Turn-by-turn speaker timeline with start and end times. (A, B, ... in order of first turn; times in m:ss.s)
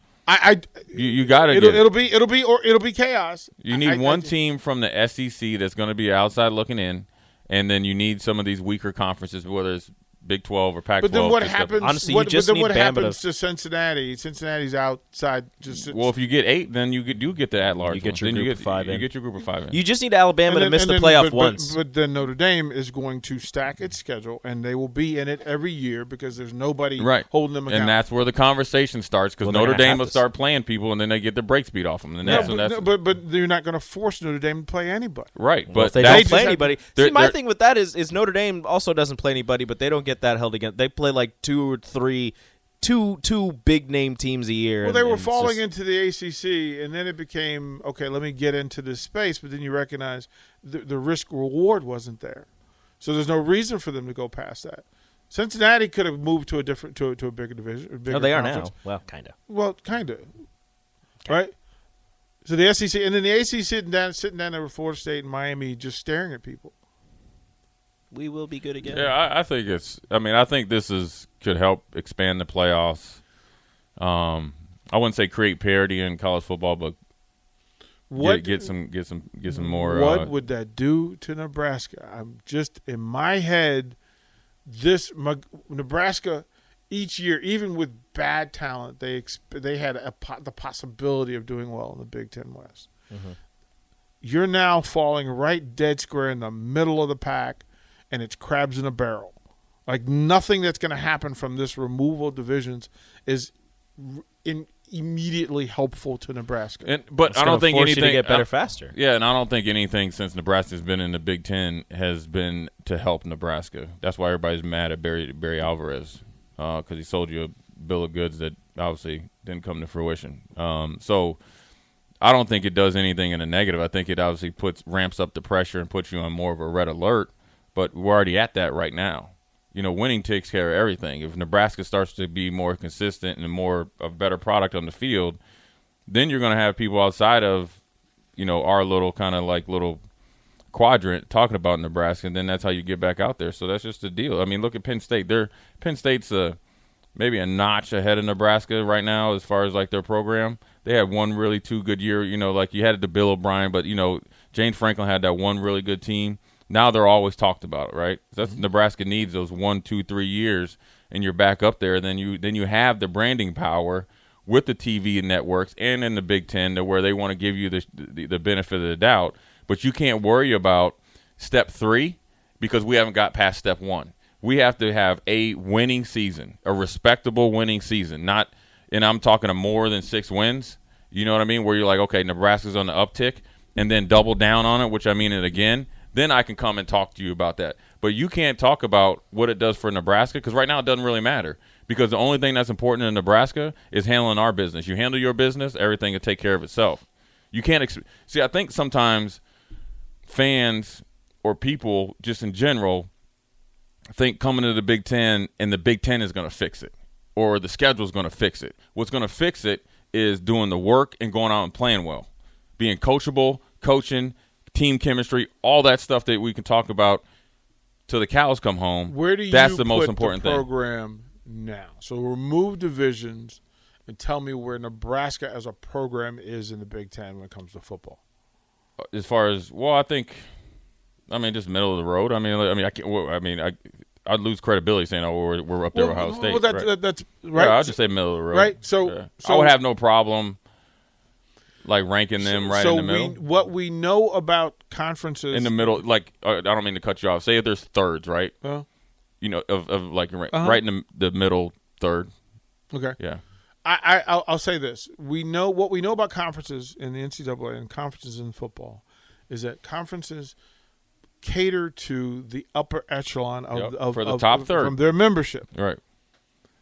0:00.3-0:04.3 A
0:00.9-0:01.9 B
0:03.6-0:11.8 B
0:11.0-0:16.1 A
0:11.8-0:13.2 C
0:15.7-0:19.8 B
0:17.9-0:19.1 C
0:19.7-0:21.8 C
0:20.5-0:28.0 A
0:27.0-0:32.9 B
0:29.4-0:30.2 C
0:32.2-0:32.6 C
0:32.2-0:35.3 A
0:35.4-0:37.4 B
0:35.7-0:45.6 C
0:36.0-0:36.8 A
0:44.8-0:52.5 A
0:53.0-0:58.7 A
0:58.1-0:59.3 C
0:59.5-1:00.4 A
1:01.3-1:01.6 A
1:02.4-1:06.7 A
1:08.1-1:09.1 C
1:08.9-1:13.2 B
1:14.0-1:17.0 B
1:18.1-1:18.7 A
1:18.2-1:20.3 B
1:19.5-1:24.0 A
1:24.7-1:32.9 A
1:33.1-1:33.4 C
1:34.2-1:46.9 A
1:46.8-2:01.4 B
1:47.3-1:48.9 C
2:02.2-2:15.4 B
2:16.1-2:17.8 B
2:18.4-2:20.0 B
2:20.7-2:26.6 B
2:27.2-3:19.4 B
3:20.3-3:23.1 B
3:24.1-3:37.2 B
3:38.1-3:40.7 B
3:39.1-3:48.2 A
3:49.1-3:50.5 B
3:51.3-3:56.9 B
3:55.9-3:59.8 A
3:57.5-4:00.6 B
4:01.8-4:03.4 B
4:02.4-4:06.0 A
4:05.5-4:08.6 B
4:09.4-4:12.3 B
4:10.5-4:10.8 A
4:12.9-4:13.2 A
4:13.8-4:20.6 A
4:21.4-4:25.7 A
4:23.7-4:25.0 B
4:25.7-4:26.0 B